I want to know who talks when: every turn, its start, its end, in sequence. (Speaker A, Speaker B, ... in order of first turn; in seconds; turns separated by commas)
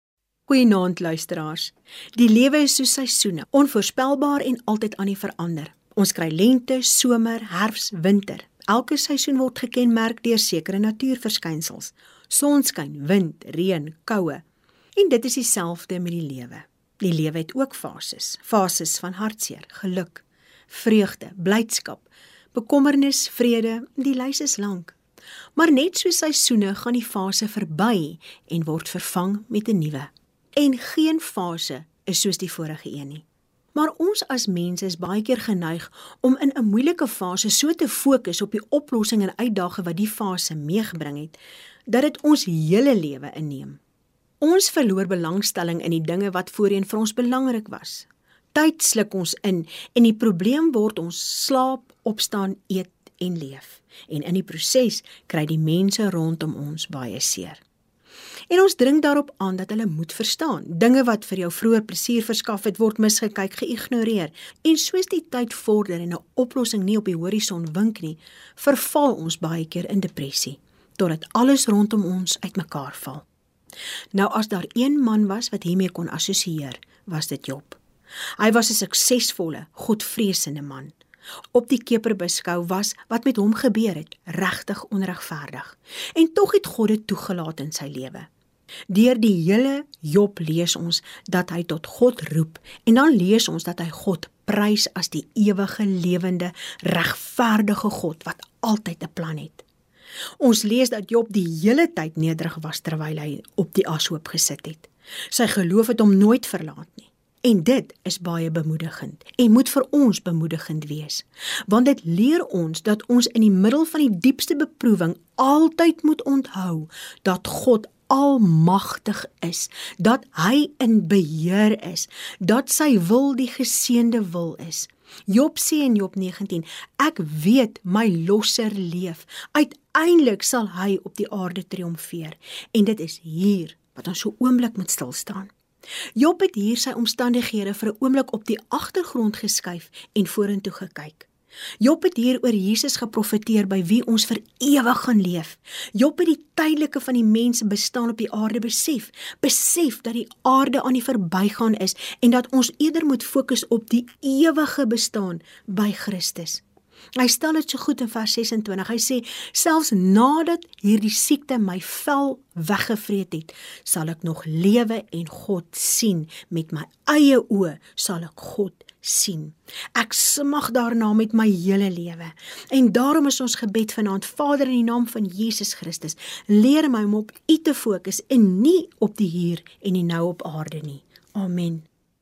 Speaker A: 0.5-14.4, Speaker A: 15.0-24.9, Speaker A: 25.6-33.2, Speaker A: 33.8-43.8, Speaker A: 44.4-57.6, Speaker A: 58.5-73.2, Speaker A: 74.1-77.8, Speaker A: 78.4-80.9, Speaker A: 81.5-88.3, Speaker A: 88.9-99.6, Speaker A: 100.4-135.5, Speaker A: 136.2-141.3, Speaker A: 141.8-156.6, Speaker A: 157.2-181.9